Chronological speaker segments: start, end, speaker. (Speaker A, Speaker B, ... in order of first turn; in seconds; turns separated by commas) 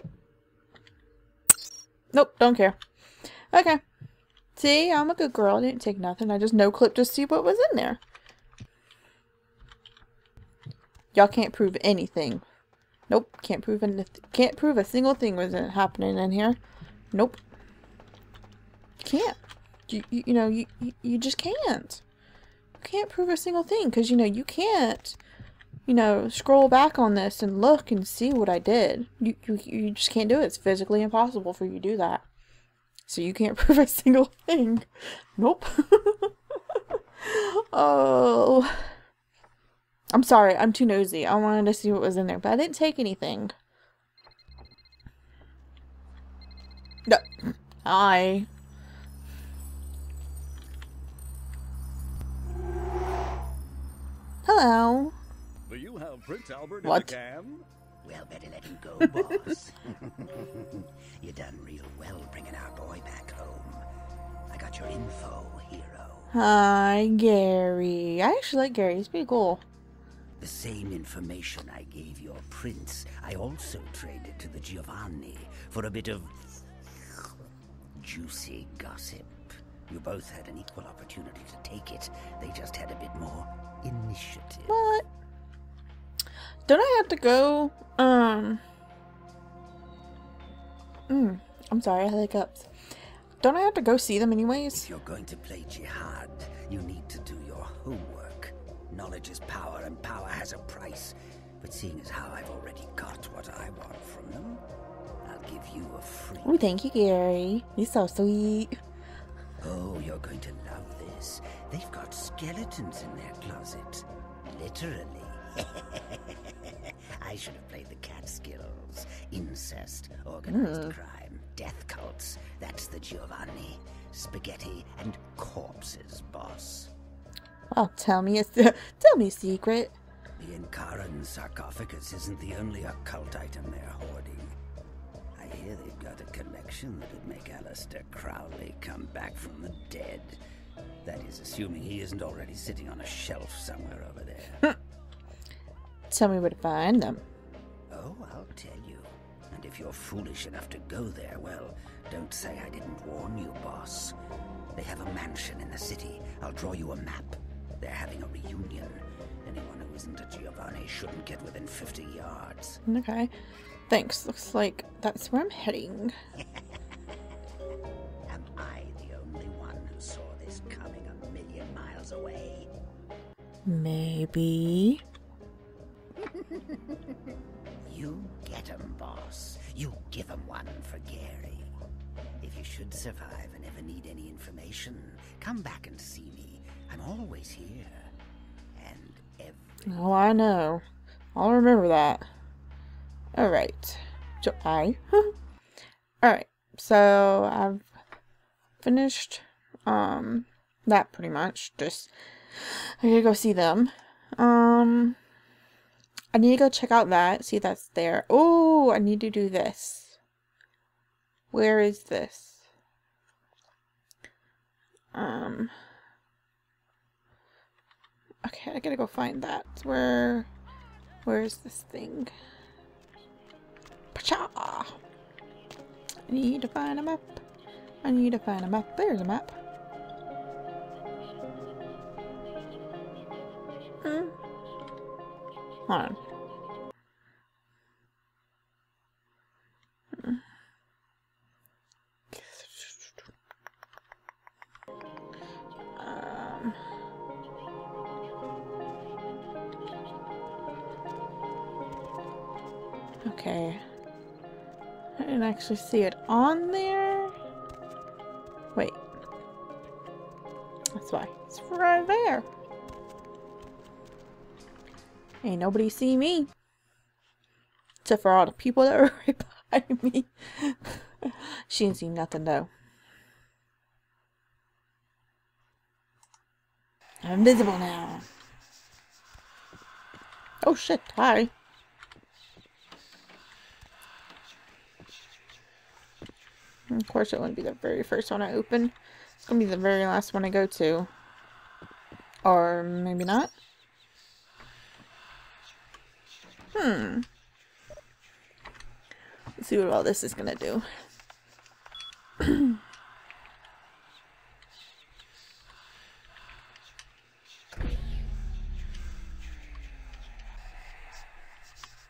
Speaker A: 2.1-2.8, Speaker A: 3.5-3.8, Speaker A: 4.6-8.0, Speaker A: 11.1-12.4, Speaker A: 13.1-16.6, Speaker A: 17.1-17.4, Speaker A: 19.0-22.0, Speaker A: 22.8-25.2, Speaker A: 25.9-32.2, Speaker A: 33.1-36.3, Speaker A: 37.2-38.9, Speaker A: 40.1-43.5, Speaker A: 47.9-48.5, Speaker A: 54.5-55.1, Speaker B: 55.7-57.6, Speaker A: 56.8-57.1, Speaker C: 58.0-63.9, Speaker C: 64.5-66.3, Speaker A: 66.3-69.6, Speaker C: 70.4-77.3, Speaker C: 77.9-84.7, Speaker A: 84.7-85.1, Speaker A: 86.7-88.6, Speaker A: 91.1-92.7, Speaker A: 93.4-94.9, Speaker C: 94.7-104.6, Speaker C: 105.2-106.5, Speaker A: 106.4-108.8, Speaker C: 109.6-126.9, Speaker A: 120.5-120.9, Speaker A: 127.7-129.9, Speaker C: 130.4-134.6, Speaker C: 135.4-140.4, Speaker C: 141.0-144.6, Speaker A: 146.1-147.2, Speaker C: 147.9-154.2, Speaker C: 154.8-162.8, Speaker A: 162.9-163.3, Speaker A: 163.9-166.1, Speaker C: 168.3-172.7, Speaker A: 173.7-175.0, Speaker C: 177.8-181.7, Speaker C: 182.4-188.1, Speaker C: 188.8-190.1, Speaker A: 189.9-190.8, Speaker A: 191.3-192.3, Speaker A: 193.3-195.3, Speaker A: 196.2-197.9, Speaker A: 198.8-205.2, Speaker A: 206.3-210.2, Speaker A: 211.5-212.6, Speaker A: 215.1-215.7, Speaker A: 218.4-220.5, Speaker A: 221.3-222.3, Speaker A: 224.1-225.0, Speaker A: 226.3-227.4, Speaker A: 228.0-229.6, Speaker A: 234.0-234.3, Speaker A: 235.9-236.2, Speaker A: 240.2-240.4, Speaker A: 242.3-243.1, Speaker A: 246.0-246.8, Speaker A: 253.3-253.8, Speaker A: 255.2-257.3, Speaker A: 260.9-262.5, Speaker A: 265.4-266.5, Speaker A: 268.1-272.7, Speaker A: 277.2-278.2, Speaker A: 280.6-281.5, Speaker A: 286.9-288.9, Speaker A: 289.4-291.1, Speaker A: 292.4-293.5, Speaker A: 296.7-297.3, Speaker A: 299.6-300.8, Speaker A: 302.4-302.7